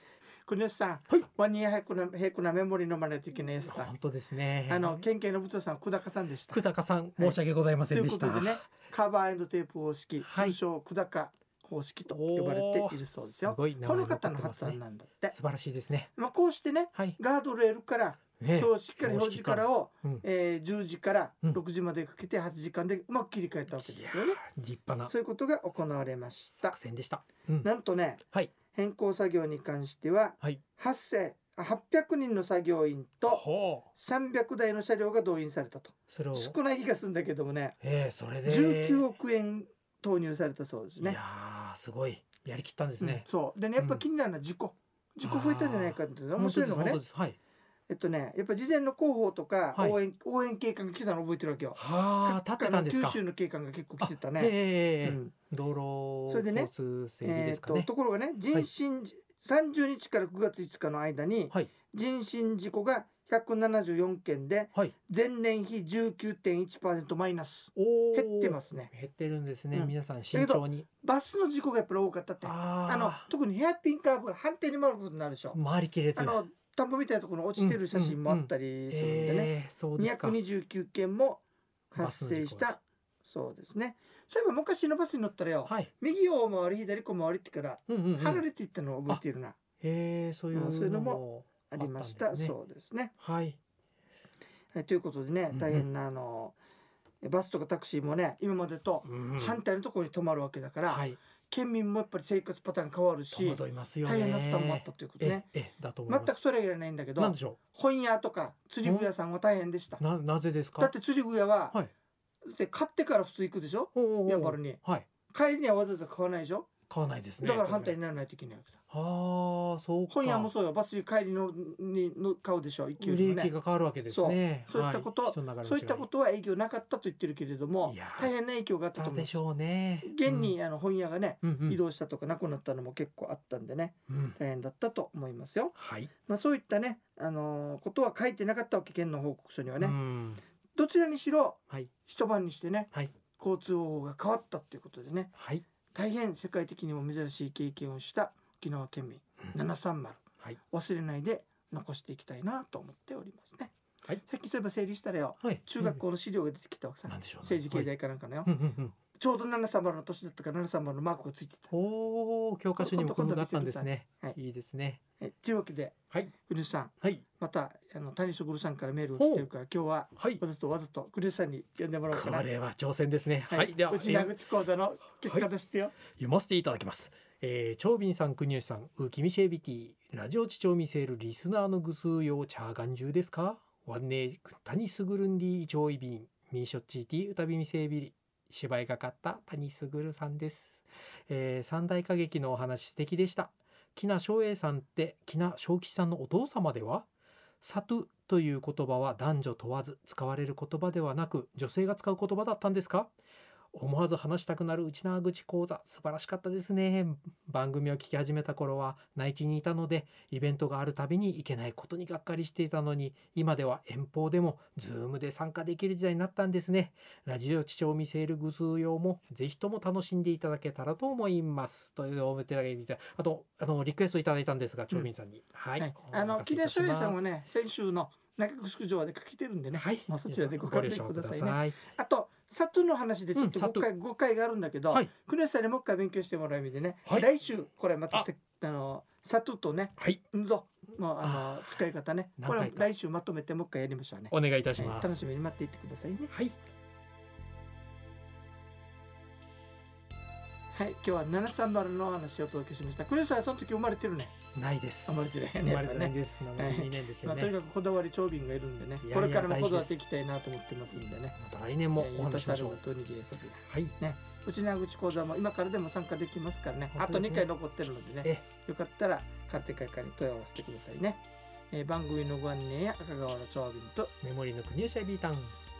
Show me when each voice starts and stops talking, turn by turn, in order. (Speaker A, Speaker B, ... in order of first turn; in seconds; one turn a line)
Speaker A: 0.5-3.9
Speaker B: 3.6-5.0
Speaker A: 4.7-6.6
Speaker B: 6.5-8.7
Speaker A: 7.2-15.4
Speaker B: 10.2-10.6
Speaker B: 12.1-16.1
Speaker A: 16.1-24.4
Speaker B: 18.4-20.2
Speaker B: 23.7-25.1
Speaker A: 25.0-26.8
Speaker B: 26.5-27.7
Speaker A: 27.6-37.8
Speaker B: 33.2-33.9
Speaker B: 36.1-36.5
Speaker B: 37.8-39.1
Speaker A: 38.4-41.2
Speaker B: 41.0-43.2
Speaker A: 43.0-47.0
Speaker B: 43.8-44.0
Speaker B: 45.2-47.4
Speaker A: 47.9-55.3
Speaker B: 51.8-53.2
Speaker B: 54.0-57.9
Speaker A: 56.3-56.7
Speaker A: 57.2-68.9
Speaker B: 67.8-70.8
Speaker A: 69.7-75.6
Speaker B: 72.4-73.3
Speaker B: 75.5-76.4
Speaker A: 76.2-89.6
Speaker B: 77.6-80.4
Speaker B: 82.0-82.7
Speaker B: 87.9-88.4
Speaker B: 89.8-92.5
Speaker A: 90.5-93.1
Speaker B: 93.2-93.6
Speaker A: 94.7-96.5
Speaker B: 95.5-95.9
Speaker A: 97.2-105.5
Speaker B: 99.0-99.6
Speaker B: 100.9-101.2
Speaker B: 103.3-106.3
Speaker A: 106.1-110.0
Speaker B: 107.2-107.6
Speaker B: 108.8-109.1
Speaker B: 110.0-110.9
Speaker A: 110.8-111.8
Speaker A: 112.4-116.7
Speaker B: 113.9-115.1
Speaker B: 116.9-118.0
Speaker A: 117.4-118.8
Speaker B: 118.9-120.5
Speaker A: 120.1-123.5
Speaker B: 123.0-126.1
Speaker A: 124.1-129.4
Speaker B: 127.8-128.3
Speaker B: 128.9-130.5
Speaker A: 130.0-140.0
Speaker B: 131.4-131.8
Speaker B: 134.1-134.4
Speaker B: 135.8-136.1
Speaker B: 139.8-140.4
Speaker A: 140.7-145.3
Speaker B: 145.3-145.6
Speaker A: 145.9-158.5
Speaker B: 155.4-156.0
Speaker B: 157.1-157.9
Speaker B: 158.4-158.9
Speaker A: 159.1-161.7
Speaker B: 161.7-165.0
Speaker A: 162.8-164.4
Speaker A: 165.2-172.5
Speaker B: 169.2-169.5
Speaker B: 170.2-170.4
Speaker B: 172.1-174.4
Speaker A: 173.5-176.0
Speaker B: 176.1-197.1
Speaker B: 197.6-203.1
Speaker B: 203.7-227.2
Speaker A: 225.8-246.3
Speaker B: 229.7-231.8
Speaker B: 233.3-233.9
Speaker B: 240.0-240.2
Speaker B: 241.2-241.8
Speaker B: 242.4-242.9
Speaker B: 244.3-245.2
Speaker B: 246.3-246.6
Speaker A: 250.7-254.4
Speaker B: 254.5-257.5
Speaker A: 255.1-261.4
Speaker B: 259.0-260.0
Speaker B: 261.4-262.8
Speaker A: 262.0-274.1
Speaker B: 263.6-263.9
Speaker B: 266.9-267.5
Speaker B: 274.2-275.6